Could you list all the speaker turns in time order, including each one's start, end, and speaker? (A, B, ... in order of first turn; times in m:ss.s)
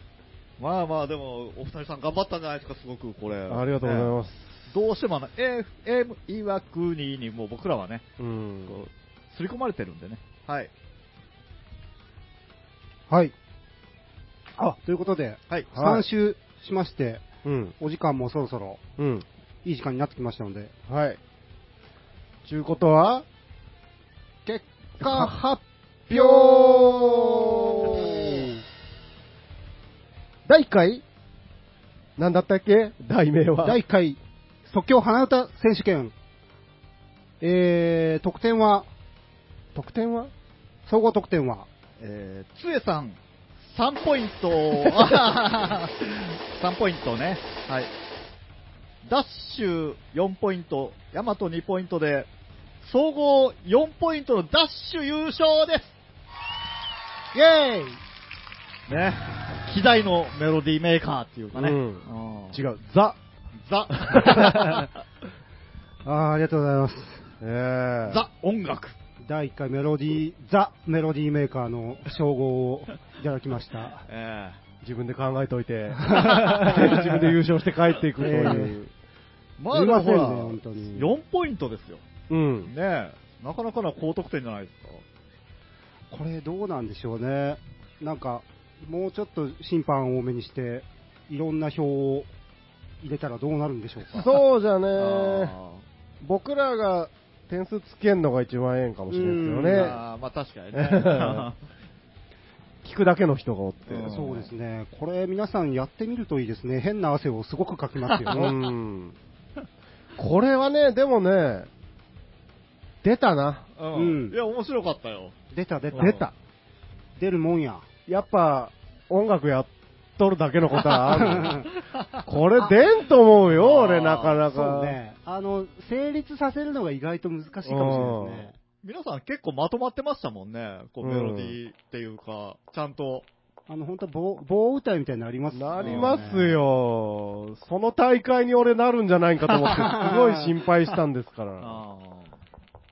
0:00.6-0:04.2 A
0:03.5-0:04.6 B
0:04.7-0:08.0 A
0:08.2-0:08.8 B
0:08.7-0:10.7 A
0:13.1-0:13.3 C
0:14.6-0:17.2 C
0:15.5-0:16.1 A
0:17.4-0:17.8 B
0:17.8-0:18.8 C
0:19.0-0:19.3 B
0:19.6-0:20.7 C
0:20.9-0:21.2 B
0:22.4-0:23.2 B
0:24.5-0:28.6 C
0:25.0-0:25.4 B
0:26.1-0:28.5 B
0:30.5-0:31.0 B
0:32.2-0:33.8 B
0:33.6-0:36.1 C
0:37.4-0:38.9 C
0:39.8-0:40.3 B
0:40.9-0:41.7 C
0:42.0-0:47.9 A
0:49.0-0:52.3 A
0:52.8-0:56.0 A
0:57.3-0:58.0 C
0:58.9-1:02.6 A
1:01.5-1:03.2 B
1:03.6-1:04.9 A
1:04.2-1:04.9 C
1:06.0-1:07.3 C
1:07.4-1:08.2 B
1:08.1-1:09.0 A
1:09.2-1:14.1 C
1:14.1-1:14.6 A
1:14.8-1:18.9 B
1:16.1-1:17.2 C
1:16.3-1:16.8 A
1:18.2-1:18.8 C
1:19.6-1:22.0 A
1:19.7-1:21.1 C
1:22.3-1:22.7 B
1:22.7-1:25.0 A
1:26.1-1:32.3 C
1:33.0-1:34.3 C
1:34.2-1:35.6 B
1:35.0-1:35.8 A
1:36.2-1:40.0 B
1:39.1-1:40.0 C
1:39.7-1:41.6 A
1:40.7-1:41.5 B
1:42.8-1:44.1 B
1:43.9-1:44.5 A
1:44.1-1:48.6 C
1:48.1-1:48.4 A
1:48.3-1:49.2 B
1:50.2-1:51.7 B
1:53.0-1:53.7 B
1:53.8-1:55.4 A
1:53.9-1:54.4 C
1:55.5-1:56.2 C
1:55.9-1:56.2 A
1:55.9-1:56.3 B
1:57.2-1:57.9 C
1:58.1-2:01.7 B
2:01.1-2:01.7 C
2:01.7-2:02.2 A
2:02.2-2:05.0 B
2:03.5-2:04.4 A
2:04.5-2:08.6 C
2:07.7-2:08.5 B
2:08.8-2:13.3 A
2:11.0-2:11.6 B
2:13.7-2:16.6 C
2:15.5-2:21.8 B
2:15.8-2:16.2 A
2:19.6-2:19.9 A
2:19.9-2:20.5 C
2:21.6-2:22.4 A